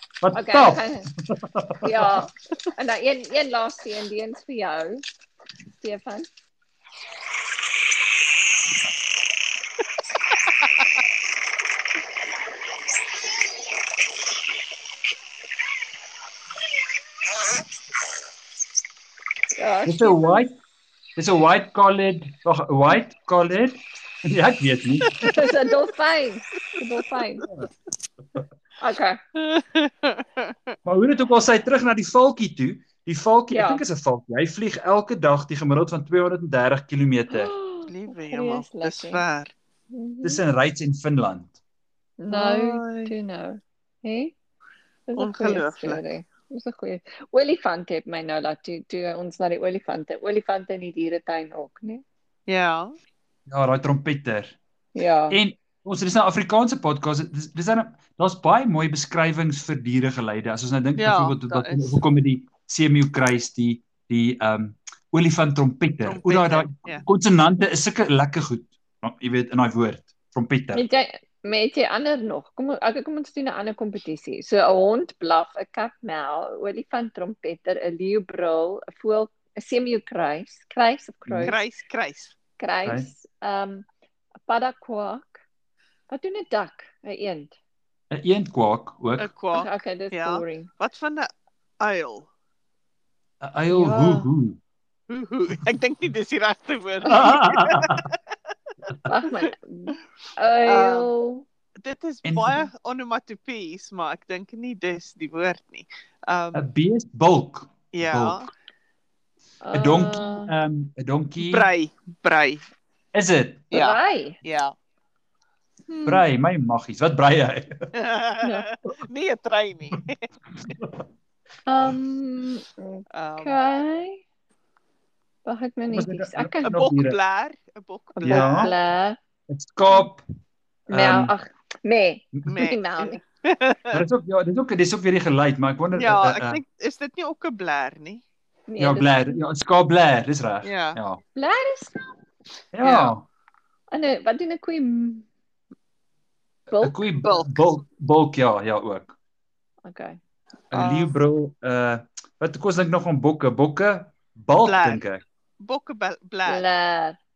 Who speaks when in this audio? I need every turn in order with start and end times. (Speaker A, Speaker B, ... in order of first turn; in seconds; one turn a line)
Speaker A: 0.2-2.0
Speaker B: 0.3-1.1
Speaker B: 1.8-5.0
Speaker B: 5.8-6.3
Speaker B: 19.6-20.5
Speaker A: 19.9-20.5
Speaker A: 21.1-25.2
Speaker B: 25.2-27.5
Speaker B: 28.8-29.2
Speaker C: 29.3-30.7
Speaker A: 30.8-37.5
Speaker B: 33.5-33.8
Speaker B: 37.3-39.2
Speaker C: 37.9-39.5
Speaker B: 39.9-40.4
Speaker A: 40.2-41.5
Speaker B: 42.2-44.3
Speaker C: 42.3-43.1
Speaker B: 45.1-52.0
Speaker C: 45.1-46.0
Speaker C: 52.5-52.9
Speaker A: 53.5-54.6
Speaker B: 54.9-55.4
Speaker A: 55.3-70.8
Speaker C: 61.0-62.0
Speaker C: 66.0-67.0
Speaker B: 70.7-81.6
Speaker A: 81.2-81.5
Speaker C: 81.4-82.3
Speaker B: 82.6-83.8
Speaker B: 84.4-85.4
Speaker B: 86.1-87.5
Speaker A: 88.1-89.3
Speaker C: 89.2-92.3
Speaker B: 89.5-90.7
Speaker A: 93.4-94.6
Speaker B: 93.7-94.3
Speaker C: 95.1-98.2
Speaker A: 97.0-98.1
Speaker B: 99.0-101.5
Speaker C: 100.7-101.1
Speaker C: 101.8-106.7
Speaker A: 102.2-102.7
Speaker A: 106.5-108.4
Speaker C: 107.9-108.5
Speaker B: 109.6-110.5
Speaker A: 109.7-111.7
Speaker C: 111.4-112.6
Speaker A: 113.1-113.7
Speaker C: 113.7-114.7
Speaker B: 113.7-114.4
Speaker B: 115.9-116.2
Speaker A: 116.0-117.9
Speaker C: 117.9-120.2
Speaker B: 118.4-118.7
Speaker A: 120.6-121.0
Speaker B: 121.7-124.2
Speaker C: 123.1-123.6
Speaker B: 125.4-126.8
Speaker A: 125.9-127.2
Speaker C: 126.7-128.7
Speaker B: 128.2-129.2
Speaker A: 128.2-128.7
Speaker A: 129.5-130.2
Speaker B: 130.9-133.2
Speaker A: 130.9-131.3
Speaker C: 132.5-134.0
Speaker A: 133.9-136.6
Speaker C: 136.0-138.2
Speaker B: 138.7-139.4
Speaker A: 138.8-141.2
Speaker C: 140.6-141.0
Speaker B: 141.3-142.1
Speaker A: 142.7-143.2
Speaker C: 142.8-143.1
Speaker B: 143.9-145.3
Speaker B: 146.7-147.0
Speaker A: 146.7-149.1
Speaker C: 147.2-147.7
Speaker B: 149.8-150.2
Speaker A: 150.7-155.2
Speaker C: 150.7-151.1
Speaker C: 154.6-155.0
Speaker C: 155.6-156.7
Speaker B: 156.4-157.2